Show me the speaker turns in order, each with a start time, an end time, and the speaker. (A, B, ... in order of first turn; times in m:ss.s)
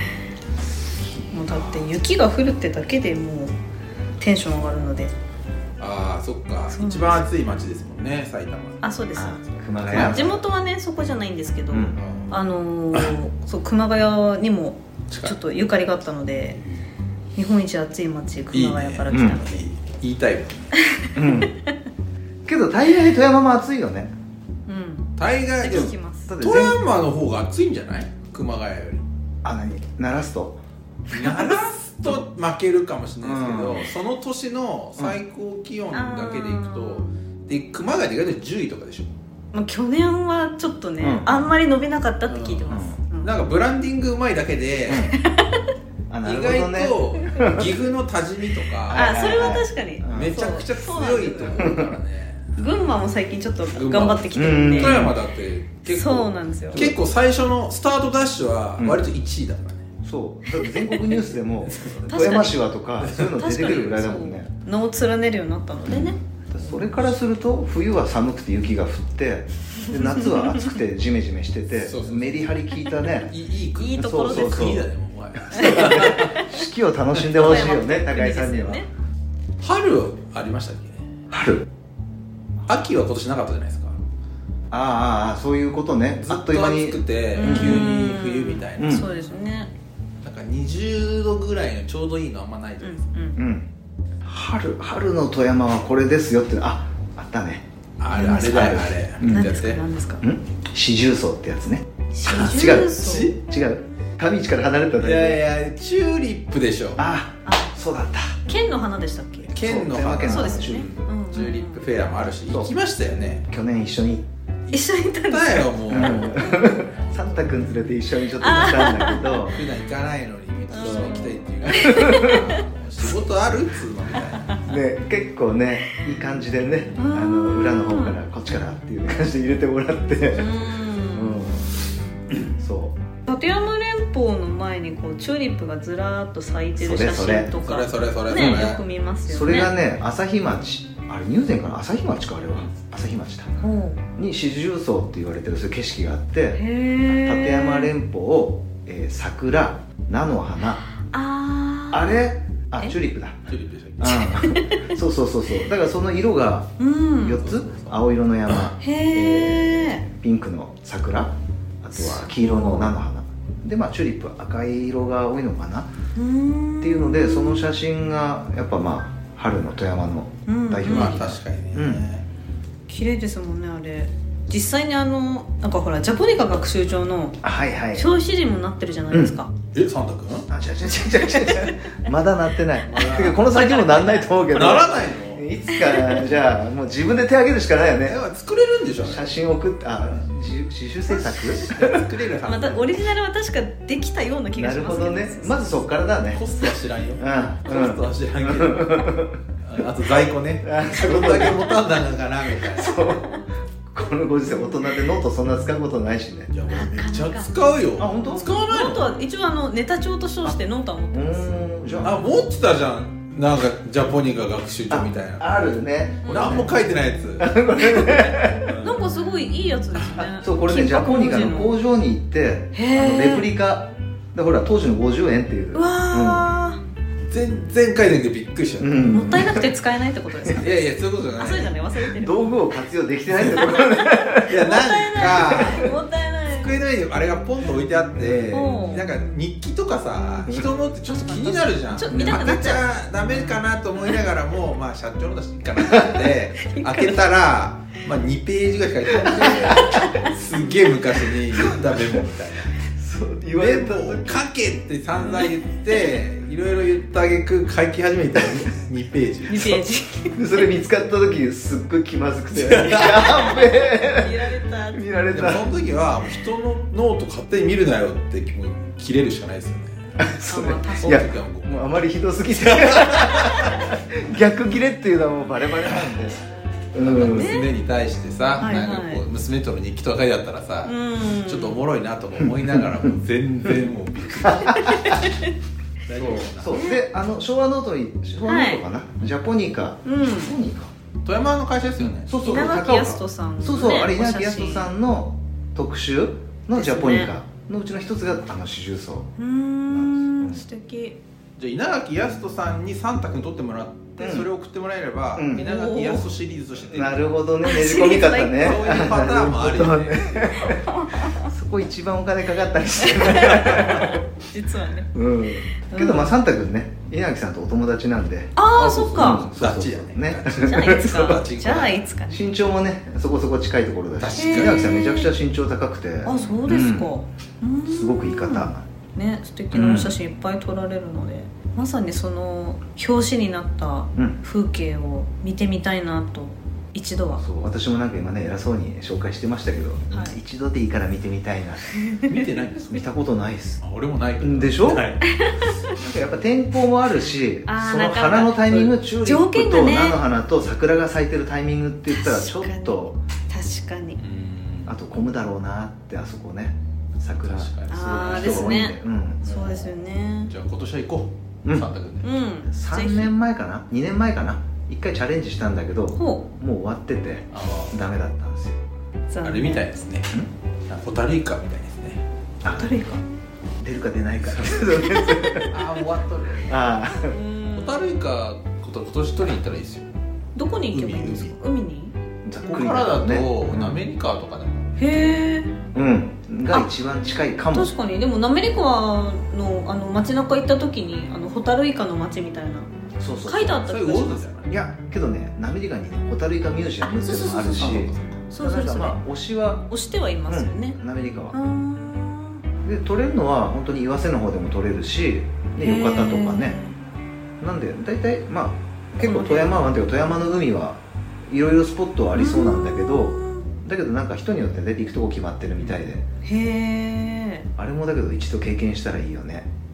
0:01.3-0:03.6 A
0:01.5-0:01.8 B
0:04.2-0:05.1 A
0:05.8-0:10.3 C
0:06.7-0:07.2 A
0:08.8-0:09.4 A
0:09.2-0:10.4 B
0:09.9-0:16.6 A
0:11.7-0:12.0 B
0:12.0-0:12.4 C
0:15.1-0:15.4 C
0:17.4-0:19.6 A
0:18.5-0:20.7 C
0:19.1-0:19.4 B
0:20.8-0:21.7 A
0:21.2-0:21.5 B
0:22.5-0:24.1 B
0:24.7-0:26.3 A
0:25.2-0:29.0 C
0:25.7-0:26.8 B
0:29.4-0:30.6 B
0:31.1-0:39.1 C
0:33.2-0:33.9 B
0:35.9-0:37.1 A
0:39.5-0:43.4 A
0:41.0-0:41.5 B
0:42.3-0:45.1 C
0:42.7-0:43.0 B
0:44.9-0:45.2 B
0:44.9-0:45.6 A
0:46.1-0:47.7 B
0:46.2-0:52.7 C
0:48.9-0:50.4 B
0:48.9-0:51.9 A
0:51.6-0:51.9 B
0:52.6-0:55.0 A
0:53.6-0:59.8 C
0:54.3-0:55.2 B
0:55.9-0:56.9 A
0:56.7-0:57.0 B
0:58.8-0:59.0 B
1:00.0-1:04.5 B
1:00.6-1:01.2 A
1:01.7-1:02.0 C
1:02.1-1:02.6 A
1:03.0-1:04.0 C
1:03.4-1:07.1 A
1:05.9-1:13.4 B
1:09.9-1:10.7 A
1:11.8-1:12.5 C
1:13.3-1:16.4 C
1:13.8-1:14.8 A
1:13.9-1:14.9 B
1:15.5-1:18.8 B
1:15.5-1:16.6 A
1:17.2-1:17.7 C
1:17.3-1:18.9 A
1:19.6-1:21.1 C
1:21.3-1:21.7 B
1:22.7-1:24.0 C
1:24.7-1:27.9 B
1:26.2-1:29.1 C
1:27.4-1:29.7 A
1:28.8-1:29.1 B
1:30.2-1:33.1 C
1:32.8-1:33.4 A
1:33.4-1:33.7 B
1:34.2-1:37.6 B
1:38.0-1:39.8 C
1:38.1-1:40.2 A
1:38.4-1:39.6 B
1:40.2-1:45.4 B
1:42.1-1:43.4 A
1:43.0-1:43.4 C
1:45.0-1:47.0 C
1:47.0-1:48.4 B
1:47.5-1:47.7 A
1:48.5-1:49.5 A
1:49.5-1:53.4 C
1:49.6-1:51.0 B
1:50.2-1:51.8 A
1:53.5-1:54.3 B
1:54.7-1:57.6 C
1:54.7-1:56.4 A
1:55.9-1:59.6 B
1:58.4-1:59.5 A
1:59.5-2:04.6 C
2:00.7-2:02.6 A
2:00.7-2:02.4 B
2:04.6-2:11.7 B
2:07.0-2:08.2 A
2:10.3-2:11.5 A
2:12.3-2:13.0 B
2:13.3-2:19.7 A
2:16.8-2:17.5 B
2:17.6-2:18.8 C
2:18.3-2:23.5 B
2:23.6-2:24.0 A
2:24.2-2:30.8 B
2:26.6-2:27.9 A
2:31.0-2:32.2 A
2:31.9-2:33.4 B
2:33.5-2:34.4 C
2:34.0-2:45.9 B
2:34.0-2:34.9 A
2:36.8-2:37.5 A
2:37.4-2:38.7 C
2:38.8-2:40.0 A
2:42.0-2:42.9 A
2:46.2-2:47.7 A
2:46.8-2:52.1 B
2:50.5-2:51.2 A
2:50.8-2:52.2 C
2:52.9-2:57.4 A
2:57.4-2:58.1 B
2:57.9-2:59.5 A
2:59.1-2:59.4 B
2:59.7-3:00.5 C
3:00.5-3:08.2 B
3:01.2-3:01.8 A
3:02.8-3:05.4 C
3:03.6-3:04.2 A
3:05.7-3:06.3 A
3:08.0-3:09.3 C
3:09.0-3:12.0 B
3:11.1-3:12.9 C
3:12.4-3:15.8 A
3:14.6-3:16.4 B
3:16.3-3:23.0 C
3:17.2-3:19.4 B
3:20.6-3:21.7 B
3:22.7-3:26.5 B
3:23.1-3:23.4 A
3:24.5-3:25.0 A
3:26.5-3:29.2 C
3:26.7-3:31.7 A
3:28.0-3:28.6 B
3:31.1-3:32.2 B
3:32.0-3:35.7 C
3:34.9-3:36.7 B
3:36.2-3:36.7 A
3:36.3-3:37.5 C
3:37.4-3:38.8 B
3:37.7-3:41.8 A
3:38.7-3:39.1 C
3:40.2-3:46.5 B
3:42.7-3:43.5 A
3:45.7-3:46.8 A
3:47.3-3:49.0 C
3:48.8-3:49.7 B
3:49.1-3:52.6 A
3:50.6-3:51.8 C
3:52.0-3:54.5 B
3:53.3-3:53.7 C
3:53.5-3:56.8 A
3:54.5-4:12.8 C
3:58.2-3:58.6 B
3:58.5-3:59.1 A
4:01.0-4:03.6 A
4:02.1-4:02.8 B
4:06.6-4:07.3 A
4:09.2-4:10.4 A
4:09.2-4:10.1 B
4:11.6-4:12.2 B
4:12.8-4:14.4 B
4:13.5-4:19.8 C
4:15.2-4:15.5 A
4:19.5-4:20.4 A
4:20.4-4:25.7 B
4:22.5-4:23.6 C
4:23.2-4:25.2 A
4:25.3-4:30.0 C
4:30.2-4:37.6 B
4:30.5-4:31.2 A
4:31.0-4:31.9 C
4:32.5-4:33.8 C
4:37.0-4:45.2 C
4:37.2-4:37.7 A
4:38.6-4:39.2 A
4:40.8-4:41.9 A
4:42.4-4:43.1 B
4:44.4-4:45.2 B
4:44.7-4:45.5 A
4:46.1-4:46.8 C
4:46.2-4:50.9 B
4:46.7-4:47.0 A
4:48.4-4:48.8 A
4:50.0-4:50.5 A
4:51.2-4:52.8 C
4:52.2-4:59.3 B
4:52.4-4:54.9 A
4:53.6-4:54.0 C
4:56.7-4:57.3 A
4:59.4-5:01.2 A
4:59.9-5:00.6 B
5:01.6-5:07.3 C
5:04.2-5:04.5 B
5:05.4-5:05.7 B
5:05.5-5:06.3 A
5:06.9-5:10.9 B
5:07.6-5:09.0 A
5:08.6-5:10.6 C
5:10.6-5:11.5 A
5:11.4-5:14.2 B
5:13.0-5:15.1 A
5:13.6-5:13.9 C
5:15.1-5:18.6 B
5:15.8-5:16.3 A
5:18.6-5:19.5 A
5:18.7-5:22.0 C
5:19.1-5:21.6 B
5:20.6-5:22.4 A
5:22.3-5:27.1 B
5:24.2-5:24.9 C
5:24.3-5:25.3 A
5:26.2-5:37.4 A
5:27.9-5:28.9 B
5:29.7-5:30.2 B
5:37.4-5:42.1 B
5:40.1-5:40.4 A
5:42.0-5:42.3 A
5:42.2-5:43.1 C
5:42.9-5:43.8 B
5:43.8-5:45.3 C
5:44.4-5:45.1 B
5:45.3-5:45.9 A
5:46.0-5:53.2 B
5:47.7-5:50.2 A
5:52.1-5:54.2 A
5:54.2-5:55.0 C
5:54.9-5:59.4 B
5:57.4-5:58.8 C
5:57.9-6:00.5 A
5:59.4-6:02.2 C
6:02.2-6:03.3 A
6:02.7-6:08.8 B
6:06.2-6:06.5 A
6:07.5-6:08.0 C
6:09.3-6:09.9 A
6:09.4-6:12.2 C
6:12.6-6:12.9 B
6:12.6-6:13.2 A
6:13.8-6:15.8 B
6:14.4-6:17.0 C
6:16.7-6:17.4 B
6:17.3-6:18.2 A
6:17.8-6:20.1 C
6:20.6-6:22.1 A
6:20.9-6:21.6 C
6:22.4-6:24.0 B
6:22.6-6:25.0 C
6:25.0-6:25.8 A
6:26.0-6:27.9 B
6:27.7-6:32.9 A
6:33.2-6:33.8 B
6:33.4-6:34.5 A
6:33.8-6:34.8 C
6:34.7-6:39.9 B
6:37.0-6:39.2 A
6:37.8-6:38.2 C
6:39.9-6:41.0 A
6:40.5-6:41.6 B
6:41.5-6:42.6 A
6:42.8-6:46.8 B
6:45.8-6:47.0 A
6:47.6-6:56.2 B
6:49.2-6:49.9 A
6:52.4-6:53.7 A
6:56.4-6:57.7 A
6:57.8-6:59.7 B